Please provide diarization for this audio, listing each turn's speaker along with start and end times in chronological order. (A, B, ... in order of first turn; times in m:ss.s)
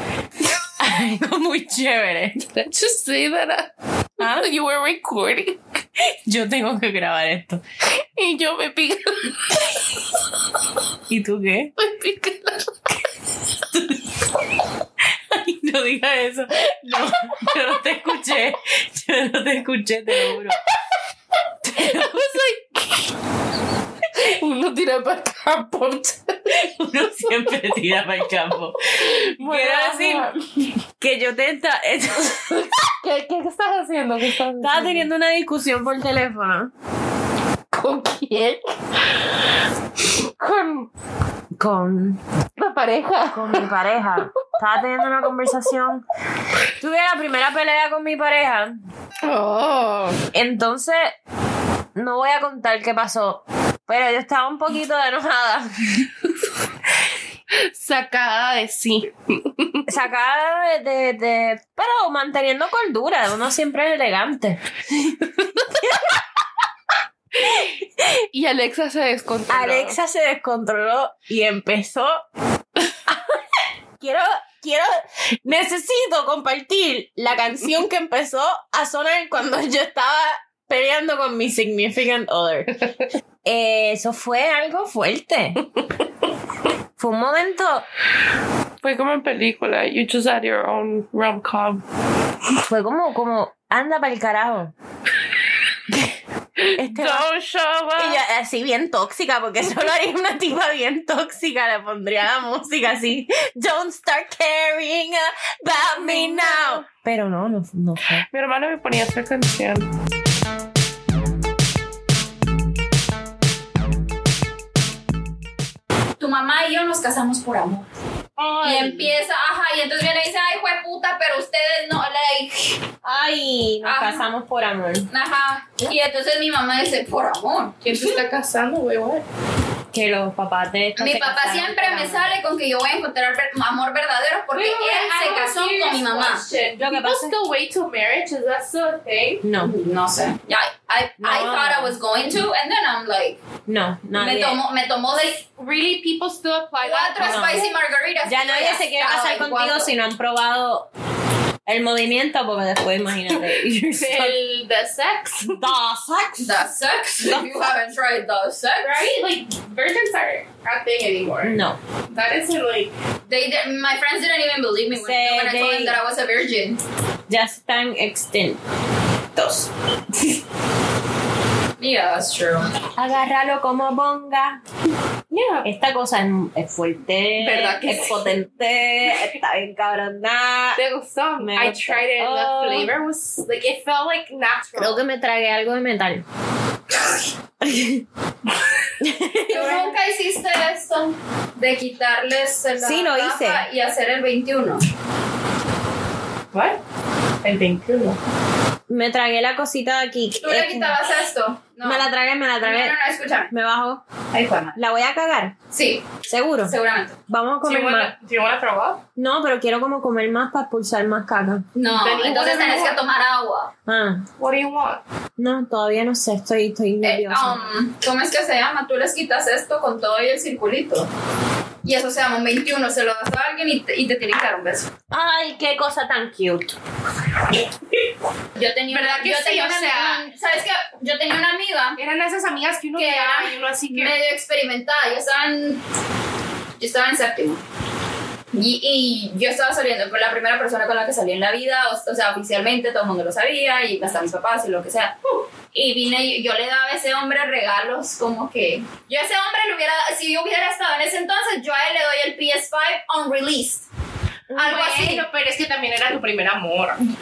0:00.8-0:02.4 A
0:02.5-0:05.6 B
0:04.2-0:04.5 A
0:06.0-0:07.6 A
0:07.9-0:09.8 B
0:11.1-0:11.7 A
0:11.8-0:13.0 B
0:13.7-0:14.2 A
0:15.3-0:20.6 A
0:17.3-0:17.8 B
0:21.6-0:22.4 A
0:21.8-0:23.1 B
0:24.1-0:27.9 B
0:26.6-0:30.3 A
0:28.8-0:30.7 B
0:31.0-0:32.6 A
0:32.3-0:35.1 B
0:34.6-0:36.7 A
0:37.7-0:38.6 B
0:40.0-0:40.9 B
0:41.5-0:42.2 A
0:42.6-0:43.7 B
0:43.3-0:46.0 A
0:44.9-0:45.5 B
0:46.8-0:48.7 A
0:49.2-0:50.2 B
0:50.3-0:51.1 A
0:51.9-0:56.1 A
0:57.5-0:59.9 B
0:59.9-1:06.2 A
1:07.4-1:10.0 B
1:09.5-1:12.2 A
1:13.1-1:13.4 A
1:14.0-1:14.9 A
1:15.4-1:22.8 A
1:22.8-1:23.1 B
1:23.4-1:25.7 A
1:27.0-1:27.9 A
1:28.8-1:31.8 B
1:32.6-1:34.7 A
1:35.9-1:36.2 A
1:36.6-1:38.2 B
1:36.8-1:37.3 A
1:38.0-1:48.2 A
1:46.0-1:46.9 B
1:48.3-1:49.9 B
1:56.2-1:57.9 C
1:58.4-1:59.1 B
1:58.6-2:02.8 C
2:03.0-2:05.1 A
2:03.8-2:04.3 C
2:05.1-2:07.8 C
2:07.8-2:09.2 B
2:09.9-2:12.3 A
2:11.0-2:16.4 C
2:14.5-2:19.4 B
2:16.8-2:17.3 A
2:19.4-2:19.7 A
2:19.6-2:23.4 C
2:21.2-2:22.0 A
2:23.7-2:24.6 A
2:24.2-2:25.4 C
2:25.5-2:27.7 B
2:26.8-2:29.9 C
2:27.2-2:27.7 A
2:28.2-2:30.9 A
2:31.6-2:34.4 A
2:33.3-2:35.7 B
2:35.5-2:36.6 A
2:36.4-2:39.1 C
2:37.2-2:37.7 A
2:38.8-2:41.6 B
2:41.4-2:41.8 A
2:42.1-2:42.9 B
2:43.3-2:46.8 C
2:44.9-2:46.0 A
2:47.3-2:48.6 A
2:49.3-2:49.7 A
2:51.8-2:52.7 C
2:53.0-2:54.6 A
2:55.3-2:55.7 B
2:55.6-3:00.8 A
2:57.4-2:58.3 B
3:00.7-3:05.0 B
3:01.4-3:02.9 A
3:04.8-3:06.2 A
3:07.6-3:08.0 A
3:09.0-3:09.9 A
3:09.5-3:14.8 C
3:09.5-3:09.8 B
3:12.7-3:13.6 A
3:16.5-3:16.8 B
3:17.4-3:18.2 B
3:18.9-3:21.0 A
3:20.4-3:23.5 C
3:21.8-3:23.0 A
3:23.5-3:24.0 A
3:24.3-3:24.8 C
3:24.7-3:25.5 A
3:25.7-3:27.2 C
3:26.3-3:26.8 A
3:27.3-3:28.1 A
3:27.6-3:29.0 B
3:29.2-3:31.6 A
3:31.7-3:33.7 C
3:31.8-3:33.0 B
3:33.9-3:34.3 A
3:34.4-3:35.0 B
3:35.4-3:37.6 A
3:37.0-3:41.1 C
3:41.8-3:44.9 C
3:45.1-3:46.8 A
3:48.5-3:52.0 C
3:48.9-3:50.2 B
3:52.0-3:54.2 B
3:53.0-3:55.8 C
3:56.8-3:57.6 C
3:58.5-4:05.2 C
4:05.7-4:13.9 C
4:14.5-4:14.8 A
4:14.5-4:15.2 C
4:14.6-4:17.0 B